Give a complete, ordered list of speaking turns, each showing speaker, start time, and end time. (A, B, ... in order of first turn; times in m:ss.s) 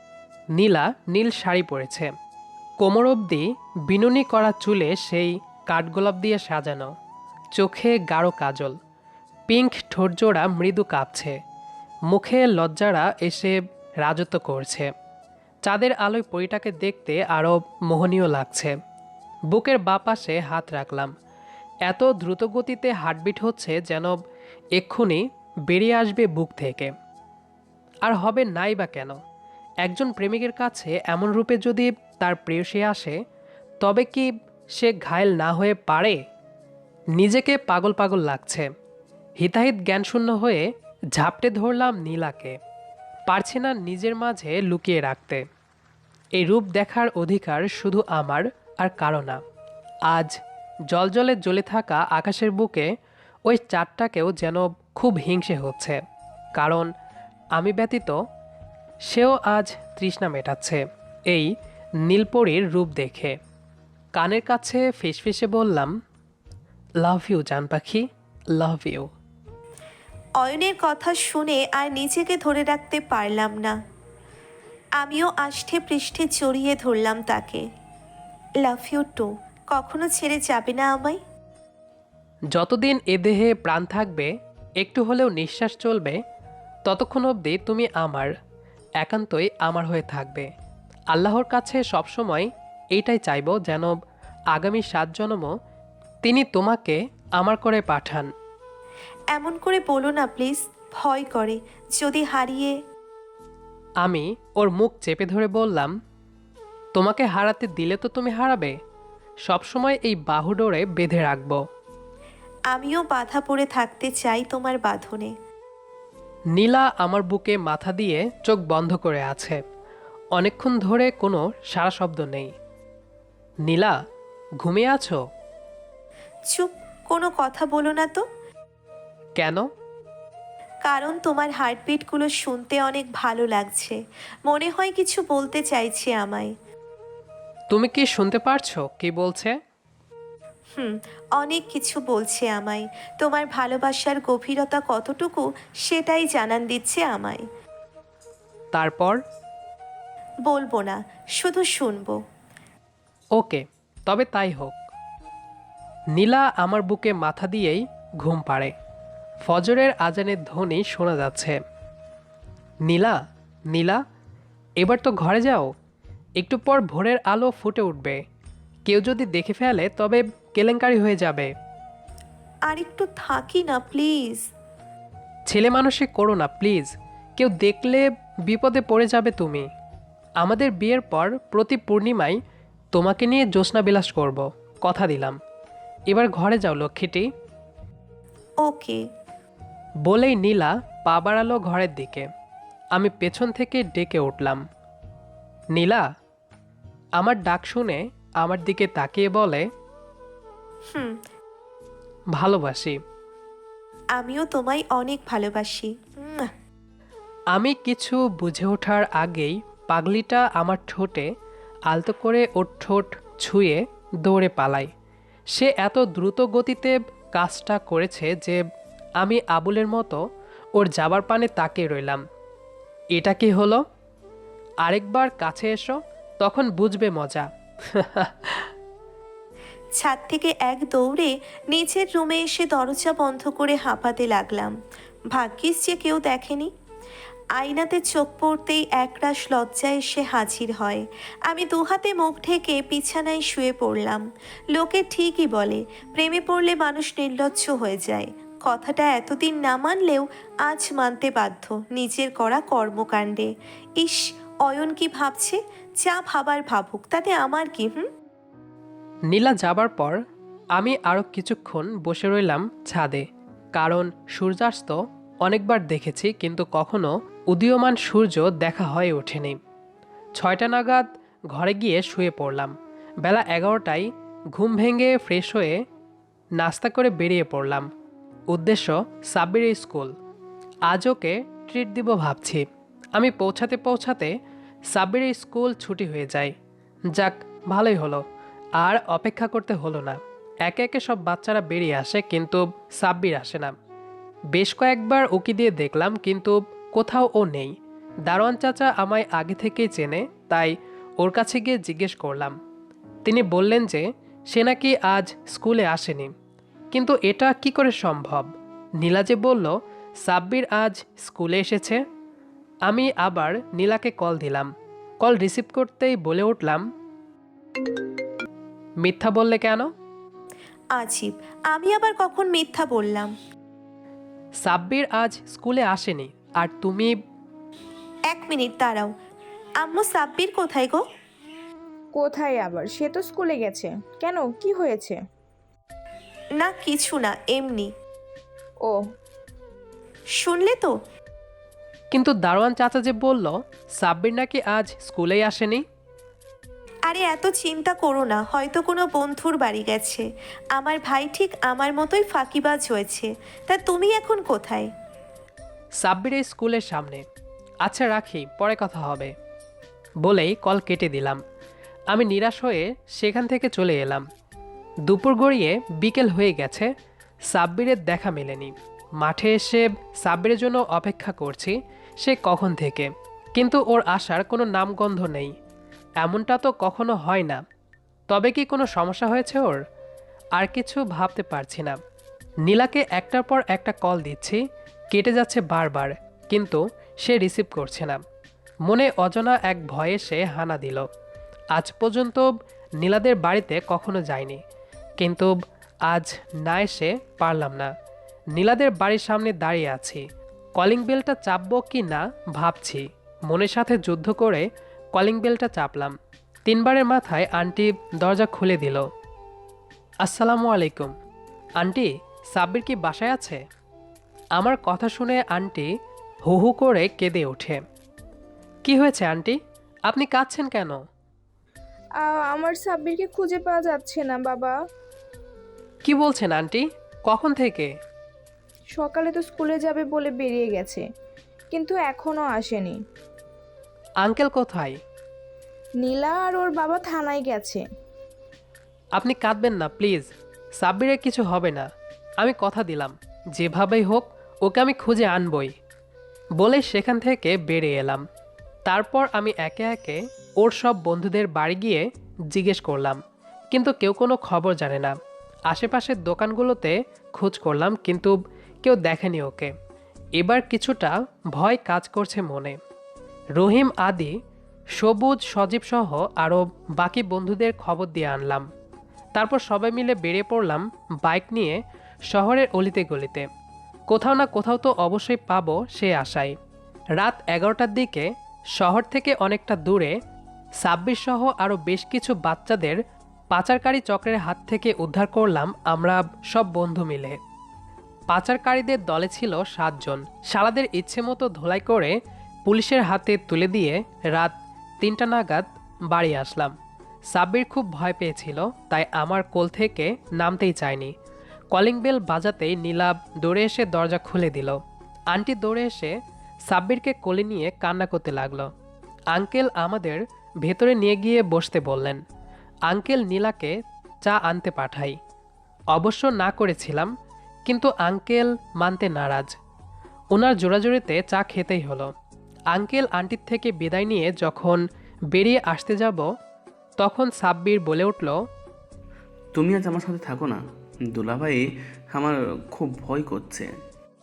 0:00.6-0:02.1 A
0:02.8-0:06.9 A
0:07.6-0:08.8 A
0:09.5-0:11.4 A
0:12.1-0:14.9 A
0:15.7-0:18.8 A
0:19.5-0:21.1 A
0:21.9-0:24.2 A
0:24.8-0:26.9 A
0:28.0-0:29.2 A
0:29.8-0:33.2 A
0:33.8-0:36.2 A
0:37.2-0:38.7 A
0:39.4-0:40.6 A
0:41.2-0:42.6 A
0:43.3-0:45.4 A
0:46.4-0:49.4 A
0:50.1-0:50.4 A
0:50.9-0:52.9 A
0:53.5-0:56.0 A
0:56.6-0:56.9 A
0:57.6-0:58.2 A
0:59.1-1:01.5 A
1:02.0-1:03.4 A
1:04.2-1:05.9 A
1:07.0-1:09.1 A
1:10.4-1:13.8 B
1:15.0-1:17.6 B
1:18.6-1:21.2 B
1:22.5-1:26.2 A
1:26.9-1:28.3 A
1:29.0-1:30.5 A
1:31.1-1:34.0 A
1:34.5-1:35.5 A
1:36.2-1:38.3 A
1:39.3-1:42.8 B
1:44.0-1:45.9 A
1:47.0-1:48.7 A
1:49.5-1:51.6 A
1:52.7-1:55.3 B
1:56.6-1:59.6 A
2:00.4-2:02.5 A
2:03.7-2:03.9 A
2:04.6-2:05.2 A
2:06.5-2:08.2 B
2:09.4-2:09.7 A
2:10.8-2:16.5 B
2:17.7-2:19.6 A
2:20.7-2:27.4 B
2:28.8-2:29.2 A
2:30.4-2:32.2 B
2:33.4-2:34.8 A
2:36.2-2:38.7 A
2:39.5-2:41.6 A
2:42.9-2:43.2 A
2:43.7-2:44.0 A
2:44.8-2:45.7 A
2:46.4-2:48.2 A
2:48.9-2:51.5 A
2:52.7-2:54.5 B
2:55.5-2:59.7 A
3:00.4-3:02.4 A
3:02.9-3:05.4 A
3:06.1-3:07.3 A
3:08.6-3:09.0 B
3:10.1-3:12.3 A
3:13.0-3:14.6 A
3:15.8-3:16.0 A
3:17.2-3:19.7 A
3:20.9-3:21.2 B
3:22.4-3:23.0 A
3:24.2-3:26.5 B
3:27.5-3:31.3 A
3:31.9-3:34.9 A
3:35.6-3:38.6 A
3:39.2-3:40.2 A
3:40.8-3:42.2 A
3:43.2-3:43.8 A
3:44.8-3:48.7 A
3:50.0-3:54.8 B
3:55.3-3:56.7 B
3:57.6-4:18.1 B
4:19.3-4:20.2 A
4:20.8-4:29.6 A
4:30.4-4:35.8 A
4:36.6-4:37.9 A
4:38.5-4:40.1 A
4:40.9-4:42.6 A
4:43.2-4:44.3 A
4:44.9-4:46.5 A
4:47.2-4:48.2 A
4:48.8-4:53.7 A
4:54.5-4:57.7 A
4:58.3-5:02.6 A
5:03.2-5:06.3 A
5:06.9-5:12.0 A
5:12.9-5:16.8 A
5:19.0-5:19.9 A
5:20.9-5:23.3 B
5:24.6-5:27.1 A
5:28.3-5:29.1 B
5:29.8-5:31.0 B
5:32.2-5:35.2 C
5:36.6-5:37.9 B
5:40.4-5:40.9 B
5:42.1-5:45.8 A
5:47.1-5:54.9 B
5:56.0-5:57.2 A
5:57.8-5:59.3 A
6:00.2-6:01.4 A
6:02.1-6:04.2 A
6:05.1-6:06.9 A
6:07.5-6:15.5 A
6:16.2-6:17.6 A
6:18.3-6:19.8 A
6:20.6-6:22.0 A
6:22.7-6:24.6 A
6:25.1-6:28.2 A
6:28.9-6:31.1 A
6:31.7-6:32.5 A
6:33.0-6:34.6 A
6:35.2-6:35.5 A
6:36.1-6:37.9 A
6:38.6-6:40.2 A
6:40.8-6:46.1 A
6:46.7-6:49.1 A
6:50.2-6:51.1 A
6:51.8-6:53.6 A
6:54.6-6:55.9 A
6:56.5-6:57.8 A
6:58.8-7:01.0 A
7:02.2-7:04.8 C
7:06.0-7:07.9 A
7:09.0-7:11.0 C
7:11.7-7:13.0 C
7:14.2-7:15.0 A
7:16.0-7:17.8 C
7:19.2-7:21.9 A
7:22.4-7:25.7 A
7:26.6-7:28.2 A
7:28.9-7:33.2 A
7:33.7-7:35.1 A
7:35.7-7:39.7 A
7:40.4-7:42.8 A
7:43.6-7:44.3 A
7:45.0-7:48.7 A
7:49.4-7:51.8 A
7:52.3-7:53.5 A
7:54.1-7:56.5 A
7:57.2-8:00.1 A
8:00.8-8:03.0 A
8:03.5-8:07.4 A
8:08.3-8:12.2 A
8:12.7-8:16.7 A
8:17.3-8:21.1 A
8:21.7-8:24.8 A
8:25.3-8:26.1 A
8:26.7-8:28.7 A
8:29.3-8:32.2 A
8:32.9-8:33.7 A
8:34.2-8:35.2 A
8:35.9-8:37.1 A
8:37.7-8:39.5 A
8:40.4-8:42.1 A
8:42.7-8:44.8 A
8:45.3-8:46.2 A
8:47.0-8:48.4 A
8:49.5-8:53.7 D